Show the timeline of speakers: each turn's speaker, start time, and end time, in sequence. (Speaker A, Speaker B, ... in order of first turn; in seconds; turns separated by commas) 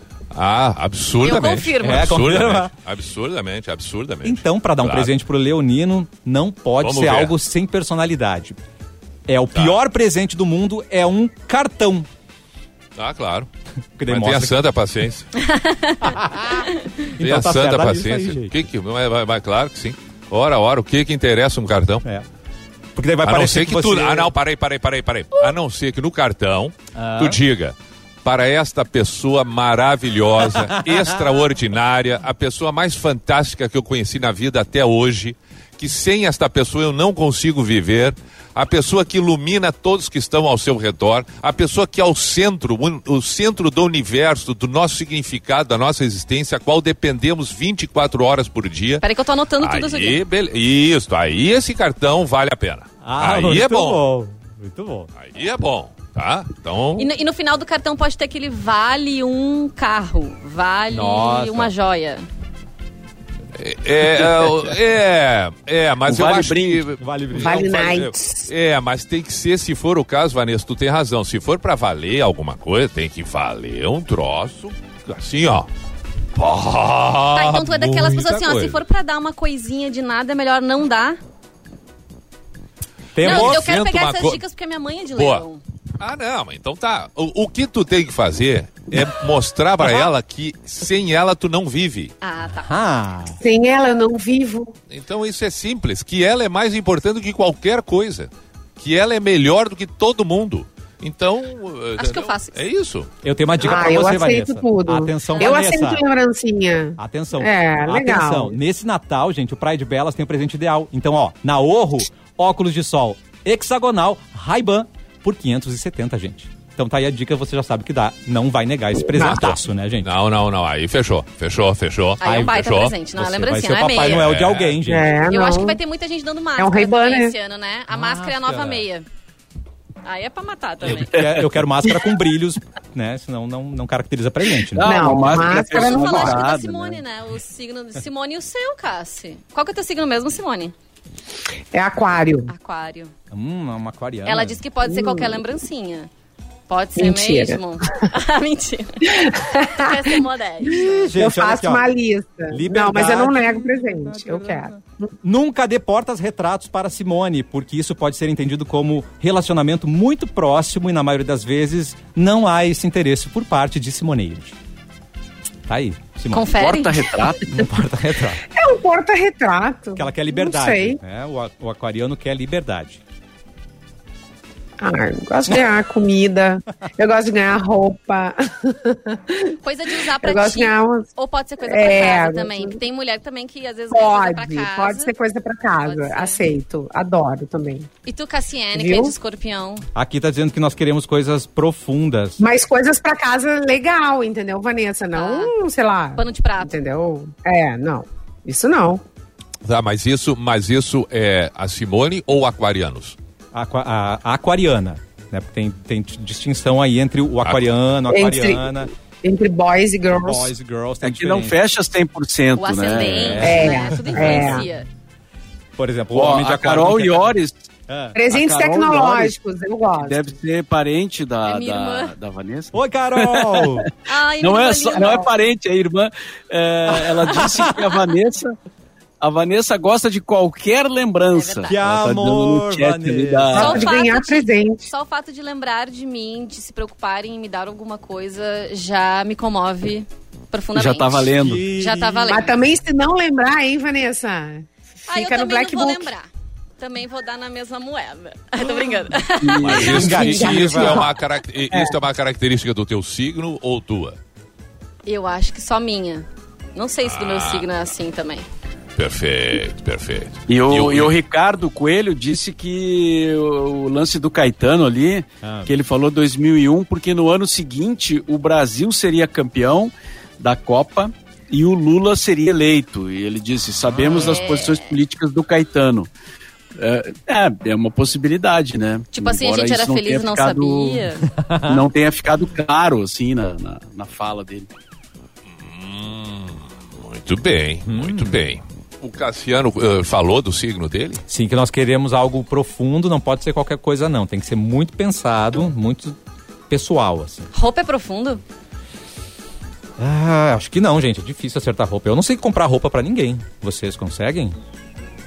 Speaker A: 0.3-5.1, Speaker B: 1.2-2.2, Speaker C: 1.8-2.7, Speaker C: 4.2-8.6, Speaker A: 6.8-7.3, Speaker C: 9.3-12.1, Speaker A: 13.0-13.5, Speaker C: 14.0-14.6, Speaker A: 14.1-15.3, Speaker B: 15.4-16.9, Speaker C: 16.0-18.5, Speaker A: 17.2-22.1, Speaker C: 22.9-24.3, Speaker A: 23.2-49.0, Speaker C: 26.9-27.4, Speaker C: 30.6-31.1, Speaker B: 49.0-50.2, Speaker A: 49.6-54.0, Speaker C: 53.0-55.1, Speaker A: 55.2-57.1, Speaker B: 57.0-62.3, Speaker C: 60.9-61.7, Speaker A: 63.5-75.7, Speaker D: 64.2-64.5, Speaker D: 66.1-66.9, Speaker C: 67.0-68.0, Speaker E: 67.3-68.5, Speaker A: 76.3-78.8, Speaker B: 77.3-81.2, Speaker C: 83.2-83.7, Speaker A: 83.2-84.4, Speaker B: 83.2-85.6, Speaker A: 85.1-85.5, Speaker A: 86.0-92.1, Speaker B: 92.2-92.8, Speaker C: 92.6-93.4, Speaker E: 93.4-94.7, Speaker A: 94.9-103.1, Speaker B: 102.0-102.6, Speaker C: 103.2-106.0, Speaker E: 103.6-108.6, Speaker C: 107.0-120.1, Speaker E: 119.0-119.4, Speaker A: 119.2-122.9, Speaker B: 122.2-124.2, Speaker C: 122.2-125.3, Speaker A: 124.0-124.8, Speaker E: 124.9-125.8, Speaker B: 125.3-129.1, Speaker E: 126.6-127.3, Speaker C: 127.9-128.8, Speaker B: 130.1-131.1, Speaker C: 130.9-135.6, Speaker D: 131.2-131.5, Speaker D: 134.7-137.0, Speaker E: 134.8-136.4, Speaker B: 135.6-140.7, Speaker E: 141.7-142.5, Speaker B: 142.5-143.1, Speaker C: 143.3-144.6, Speaker B: 144.2-146.1, Speaker E: 144.8-145.4, Speaker B: 146.7-149.2, Speaker E: 147.0-148.1, Speaker E: 149.1-150.1, Speaker B: 149.8-151.0, Speaker C: 150.6-151.9, Speaker E: 151.2-155.1, Speaker C: 152.5-164.6, Speaker C: 165.7-166.5, Speaker B: 166.3-167.0, Speaker D: 166.5-167.5, Speaker C: 167.5-168.4, Speaker E: 168.5-171.0, Speaker C: 170.0-173.0, Speaker E: 174.8-179.5, Speaker B: 179.6-185.1, Speaker E: 180.2-181.1, Speaker E: 181.6-182.8, Speaker E: 183.9-187.9, Speaker B: 185.8-186.4, Speaker B: 188.1-189.9, Speaker E: 188.7-189.1, Speaker C: 189.9-192.4, Speaker E: 192.4-199.0, Speaker B: 195.1-195.5, Speaker B: 196.2-196.8, Speaker A: 199.7-203.2, Speaker C: 203.5-208.9, Speaker A: 207.4-207.7, Speaker E: 208.1-210.5, Speaker C: 210.1-211.6, Speaker D: 211.0-213.5, Speaker B: 212.6-214.9, Speaker C: 213.0-214.7, Speaker E: 213.4-214.7, Speaker C: 215.8-217.3, Speaker D: 216.1-217.7, Speaker C: 217.9-218.2, Speaker E: 218.1-220.3, Speaker D: 218.3-219.3, Speaker D: 219.9-228.6, Speaker B: 221.4-222.1, Speaker C: 222.7-223.9, Speaker B: 224.1-225.3, Speaker E: 224.9-225.3, Speaker C: 226.9-227.8, Speaker D: 229.2-233.8, Speaker B: 231.3-231.8, Speaker C: 231.7-233.9, Speaker E: 233.5-234.9, Speaker B: 233.6-242.5, Speaker D: 240.8-241.6, Speaker C: 241.4-242.6, Speaker E: 242.3-246.1, Speaker B: 245.1-246.3, Speaker B: 246.8-250.0, Speaker D: 249.4-250.0, Speaker A: 249.6-254.2, Speaker E: 249.7-251.1, Speaker C: 249.8-251.1, Speaker B: 255.1-258.5, Speaker A: 257.1-257.7, Speaker A: 259.0-261.1, Speaker D: 260.5-276.1, Speaker C: 265.4-265.7, Speaker B: 274.1-275.0, Speaker D: 276.8-281.1, Speaker B: 279.1-281.3, Speaker C: 281.4-281.8, Speaker D: 281.7-284.7, Speaker A: 285.6-291.2, Speaker C: 287.9-288.5, Speaker C: 291.3-296.2, Speaker C: 296.7-297.5, Speaker B: 297.5-298.4, Speaker C: 300.0-304.6